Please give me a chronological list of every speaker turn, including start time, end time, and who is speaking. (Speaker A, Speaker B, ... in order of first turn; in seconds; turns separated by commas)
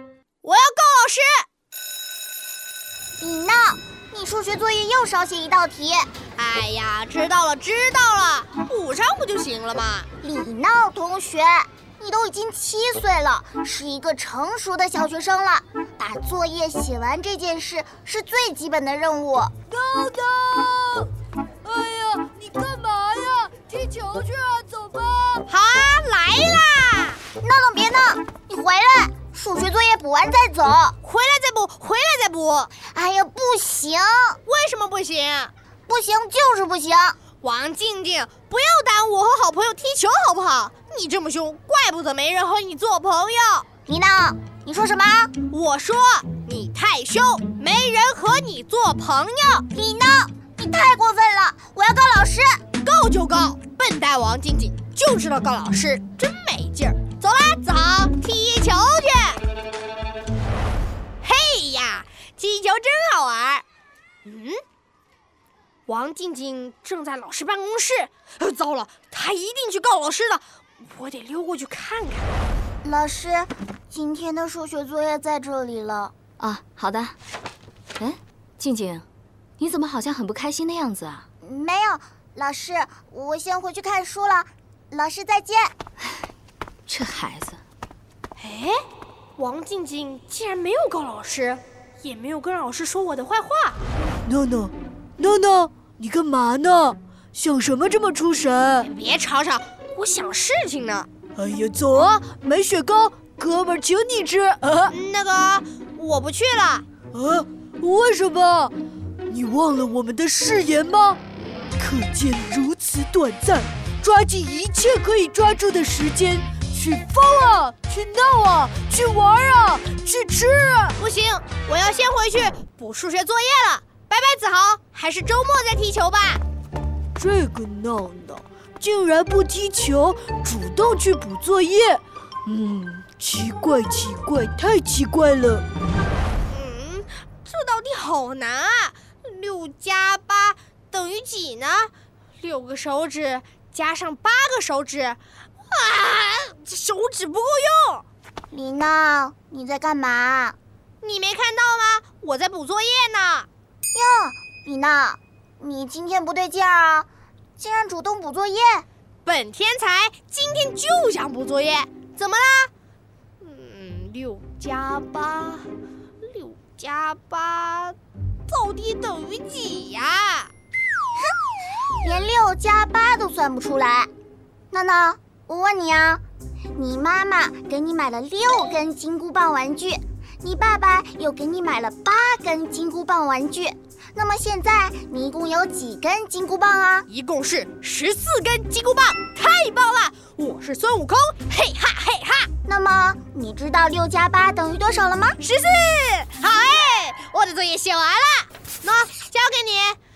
Speaker A: 0.4-1.4, Speaker B: 3.2-6.1, Speaker A: 6.3-10.1, Speaker B: 10.2-19.5, Speaker C: 19.7-21.1, Speaker C: 21.6-25.4, Speaker A: 25.5-27.2, Speaker B: 27.4-31.0, Speaker A: 31.0-32.7, Speaker B: 32.8-34.4, Speaker A: 34.4-35.5, Speaker B: 35.9-37.2, Speaker A: 37.4-43.7, Speaker B: 43.9-45.3, Speaker A: 45.5-49.7, Speaker B: 49.7-52.6, Speaker A: 52.8-59.4, Speaker A: 61.2-63.6, Speaker A: 64.2-64.6, Speaker A: 65.9-72.3, Speaker B: 72.8-76.1, Speaker D: 76.4-77.2, Speaker D: 78.0-79.0, Speaker D: 79.6-81.2, Speaker B: 81.4-85.7, Speaker D: 86.9-87.6, Speaker A: 88.4-88.8, Speaker A: 89.4-93.8, Speaker C: 94.2-98.9, Speaker A: 98.8-101.1, Speaker C: 101.3-104.9, Speaker A: 104.9-106.8, Speaker C: 107.1-108.7, Speaker C: 109.3-111.2, Speaker C: 111.8-121.0, Speaker A: 121.0-126.4, Speaker C: 127.2-135.6, Speaker A: 136.5-148.0, Speaker B: 148.5-150.6, Speaker A: 151.0-153.5, Speaker B: 153.9-158.8, Speaker A: 159.2-162.7, Speaker A: 163.4-165.7, Speaker A: 166.2-168.0, Speaker A: 168.5-170.5, Speaker B: 172.0-174.1, Speaker B: 174.7-176.2, Speaker B: 176.8-187.1, Speaker A: 187.1-192.5, Speaker B: 192.7-195.4, Speaker A: 195.4-200.0